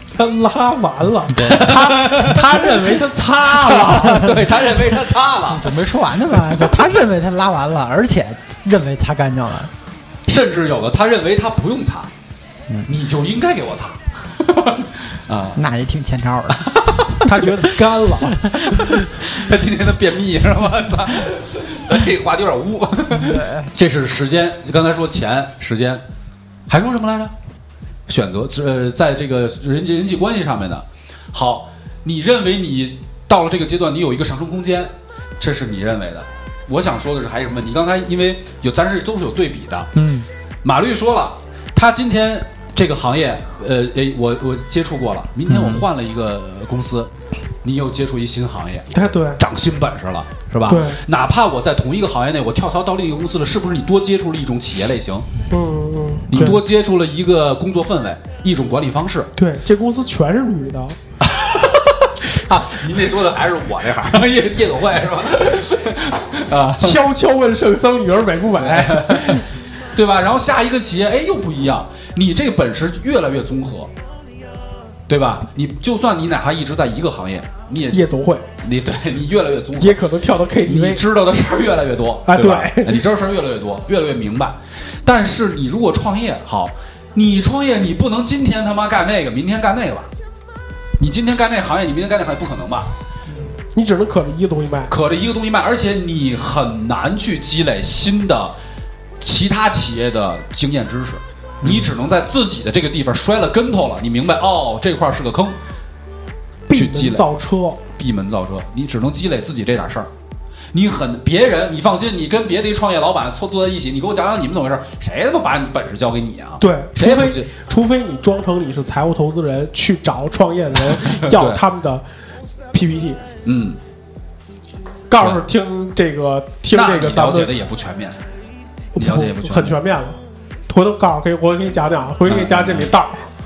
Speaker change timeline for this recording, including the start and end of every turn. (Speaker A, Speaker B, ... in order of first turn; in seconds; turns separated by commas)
Speaker A: 0.1-4.4, Speaker B: 1.3-1.7, Speaker C: 1.4-5.8, Speaker B: 5.5-9.7, Speaker C: 10.3-12.1, Speaker C: 12.9-15.6, Speaker B: 15.5-17.1, Speaker C: 16.6-17.1, Speaker A: 17.2-18.4, Speaker C: 18.6-26.0, Speaker B: 23.1-23.7, Speaker C: 26.7-27.3, Speaker C: 28.1-39.9, Speaker B: 39.9-40.3, Speaker C: 40.6-47.1, Speaker B: 45.5-45.8, Speaker C: 47.6-55.3, Speaker A: 48.9-49.4, Speaker A: 50.7-51.0, Speaker A: 55.5-56.6, Speaker C: 56.3-59.3, Speaker A: 59.4-61.0, Speaker C: 61.2-67.0, Speaker A: 66.8-69.4, Speaker C: 68.5-73.9, Speaker C: 75.1-78.0, Speaker A: 77.9-78.5, Speaker C: 78.6-80.0, Speaker A: 79.8-81.0, Speaker C: 80.6-90.1, Speaker A: 82.3-83.0, Speaker C: 91.0-92.9, Speaker A: 93.7-94.9, Speaker C: 94.9-98.5, Speaker C: 99.2-105.6, Speaker A: 106.7-107.8, Speaker C: 106.7-107.2, Speaker C: 108.0-110.1, Speaker C: 110.7-117.5, Speaker A: 116.6-122.0, Speaker C: 120.9-121.6, Speaker A: 122.7-123.2, Speaker C: 123.4-123.8, Speaker A: 125.1-127.5, Speaker C: 126.7-128.2, Speaker A: 128.9-133.3, Speaker C: 128.9-129.8, Speaker C: 132.2-132.9